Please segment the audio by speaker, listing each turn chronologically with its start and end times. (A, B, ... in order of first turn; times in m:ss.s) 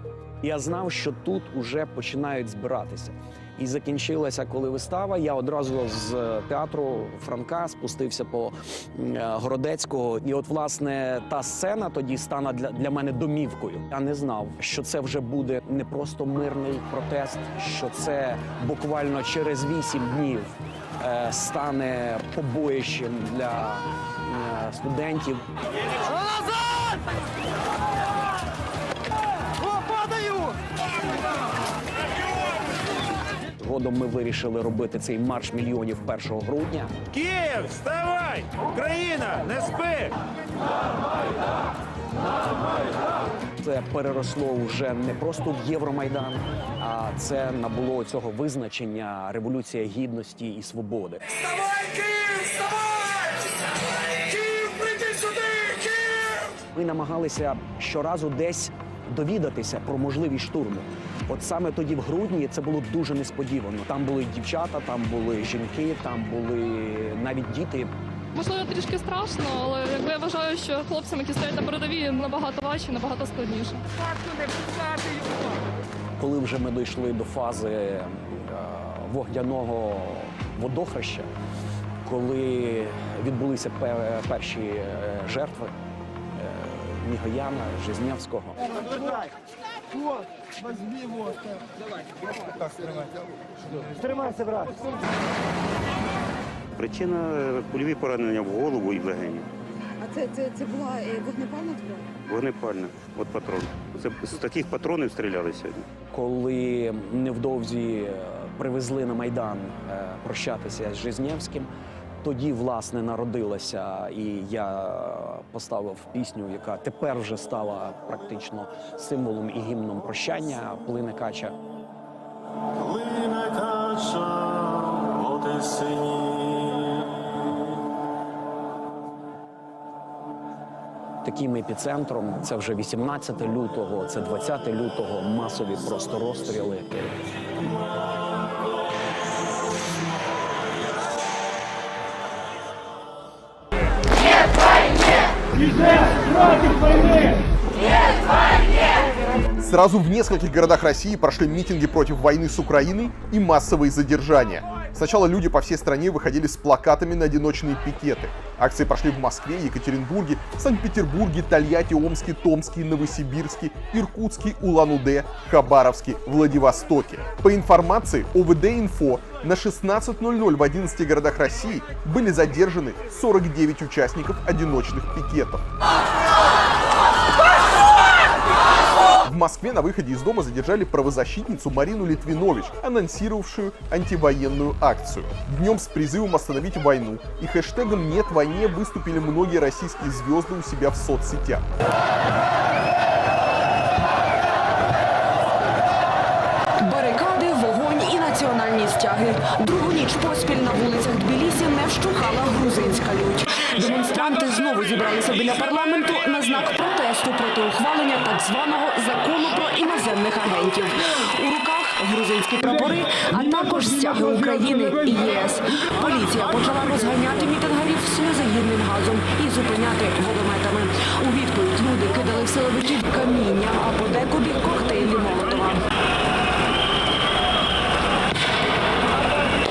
0:00.4-0:25.4 A
0:29.7-0:30.5 B
0:33.6-0:36.9 A
0:37.1-0:40.1 B
0:43.6-0:51.4 A
0:54.3-0:56.2 A
0:56.7-1:07.9 A
1:08.3-1:13.8 C
1:16.2-1:21.3 A
1:22.0-1:25.7 A
1:26.3-1:29.0 A
1:34.1-1:34.7 D
1:36.7-1:39.5 E
1:40.0-1:42.1 D
1:42.2-1:45.9 E
1:46.1-1:51.7 A
1:52.2-2:01.5 A
2:02.8-2:07.4 B
2:11.2-2:17.2 A
2:29.6-2:55.6 F
2:59.2-3:11.6 F
3:16.8-3:45.8 G